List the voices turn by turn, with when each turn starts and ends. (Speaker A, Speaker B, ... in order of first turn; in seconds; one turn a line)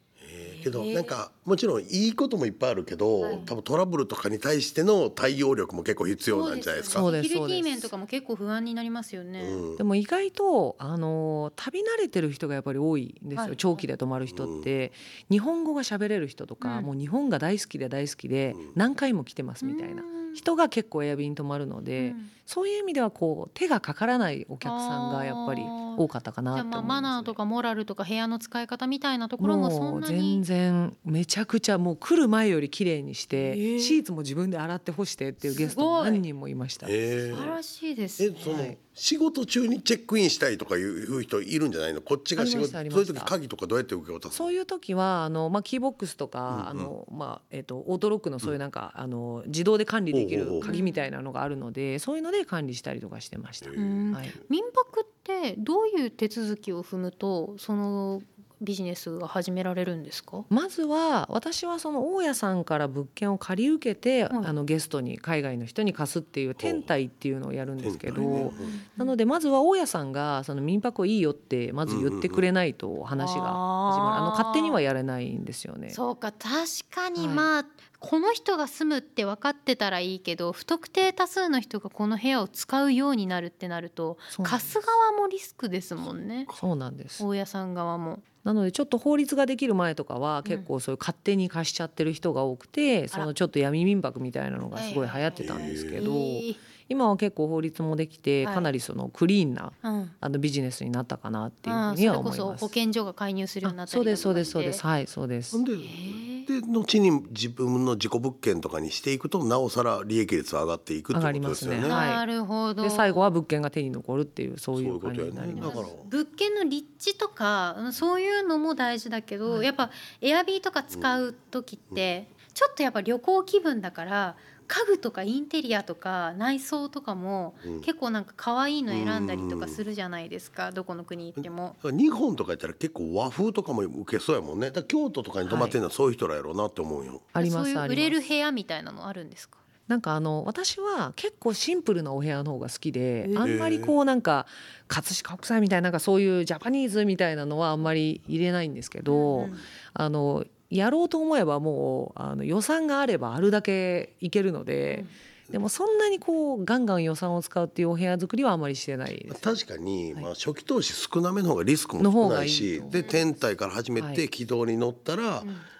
Speaker A: 0.2-7.0
Speaker B: 0.4-1.1
Speaker B: 3.2-3.5
Speaker B: 6.3-9.6
Speaker C: 6.9-7.9
Speaker A: 9.4-9.8
Speaker C: 9.8-27.4
Speaker B: 13.3-13.8
Speaker A: 14.3-14.7
Speaker B: 16.6-16.9
Speaker A: 18.5-18.8
Speaker B: 19.6-20.4
Speaker B: 22.0-22.3
Speaker B: 24.6-30.4
Speaker C: 29.4-37.5
Speaker B: 33.3-34.0
Speaker B: 35.4-36.2
Speaker A: 36.8-37.6
Speaker B: 37.3-38.7
Speaker A: 38.2-44.5
Speaker C: 38.4-38.8
Speaker C: 42.4-43.3
Speaker C: 44.3-54.4
Speaker A: 46.5-46.9
Speaker A: 50.1-50.7
Speaker B: 50.6-51.1
Speaker A: 53.6-54.4
Speaker B: 53.8-60.5
Speaker C: 60.5-76.0
Speaker A: 66.6-66.9
Speaker A: 67.8-68.8
Speaker B: 68.2-69.1
Speaker A: 71.9-72.5
Speaker B: 73.2-74.8
Speaker B: 75.9-86.5
Speaker C: 77.2-77.5
Speaker C: 84.3-84.7
Speaker C: 86.6-87.2
Speaker B: 87.2-88.2
Speaker C: 88.4-102.7
Speaker B: 94.7-96.6
Speaker A: 95.4-96.0
Speaker B: 98.4-98.7
Speaker B: 99.8-100.1
Speaker B: 101.6-104.8
Speaker C: 103.6-105.6
Speaker A: 105.5-112.0
Speaker B: 105.8-106.5
Speaker C: 111.1-112.2
Speaker B: 111.8-113.2
Speaker C: 112.8-115.9
Speaker A: 114.7-116.1
Speaker B: 115.6-131.8
Speaker A: 127.6-127.9
Speaker A: 128.9-129.8
Speaker A: 131.4-137.3
Speaker C: 135.4-135.8
Speaker C: 137.3-138.2
Speaker B: 137.4-139.6
Speaker C: 139.9-159.4
Speaker B: 143.2-143.5
Speaker A: 143.4-143.9
Speaker B: 149.1-149.7
Speaker A: 159.3-165.5
Speaker C: 162.0-163.1
Speaker B: 162.9-163.2
Speaker C: 164.0-164.2